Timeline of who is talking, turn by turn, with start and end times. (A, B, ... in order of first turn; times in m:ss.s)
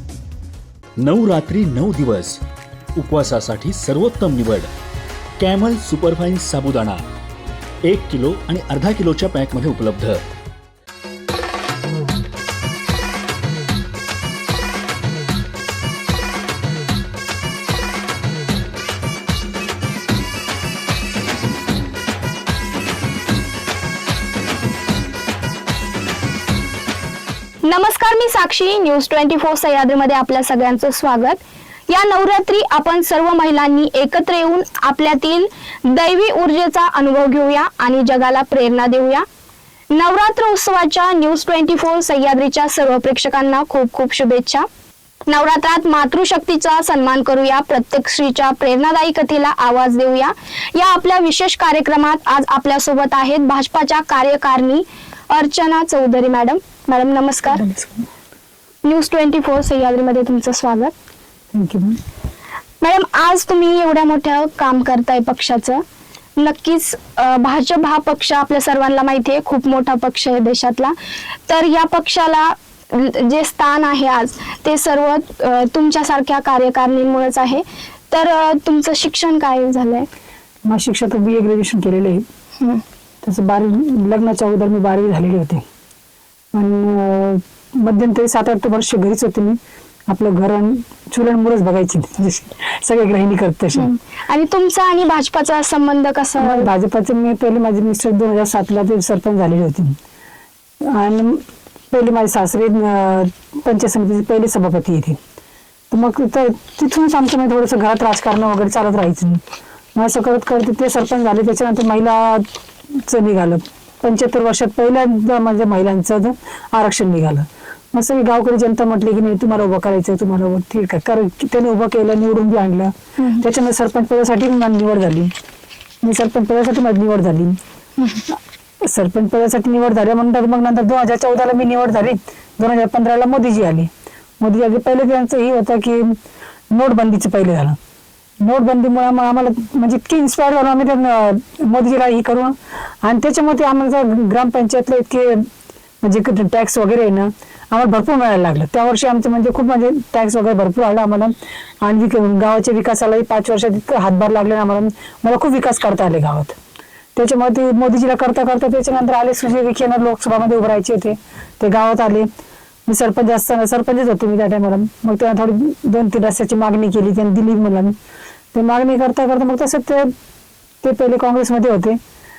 0:01.0-0:02.4 A
0:03.0-0:04.7 A
0:05.4-0:07.0 A
0:07.9-0:10.2 A
0:27.6-0:39.2 B
0:39.9-0:44.7 B
0:45.3-0:57.6 B
0:57.5-0:58.0 C
0:58.8-1:00.9 B
1:01.5-1:02.0 C
1:02.8-1:05.8 B
1:06.4-1:10.9 B
1:11.5-1:20.1 B
1:20.7-1:22.2 C
1:23.2-1:25.6 C
1:26.5-1:33.9 C
1:33.8-1:36.7 B
1:36.4-1:40.0 C
1:40.8-1:45.2 C
1:45.9-1:49.4 C
1:50.0-2:05.3 C
2:03.2-2:03.5 B
2:06.0-2:07.6 C
2:08.0-2:08.2 B
2:08.3-2:13.9 C
2:14.4-2:16.2 C
2:16.7-2:17.8 C
2:18.4-2:25.5 C
2:26.0-2:36.6 C
2:37.2-2:42.3 C
2:42.9-2:47.9 C
2:48.5-2:50.1 C
2:50.8-2:52.0 C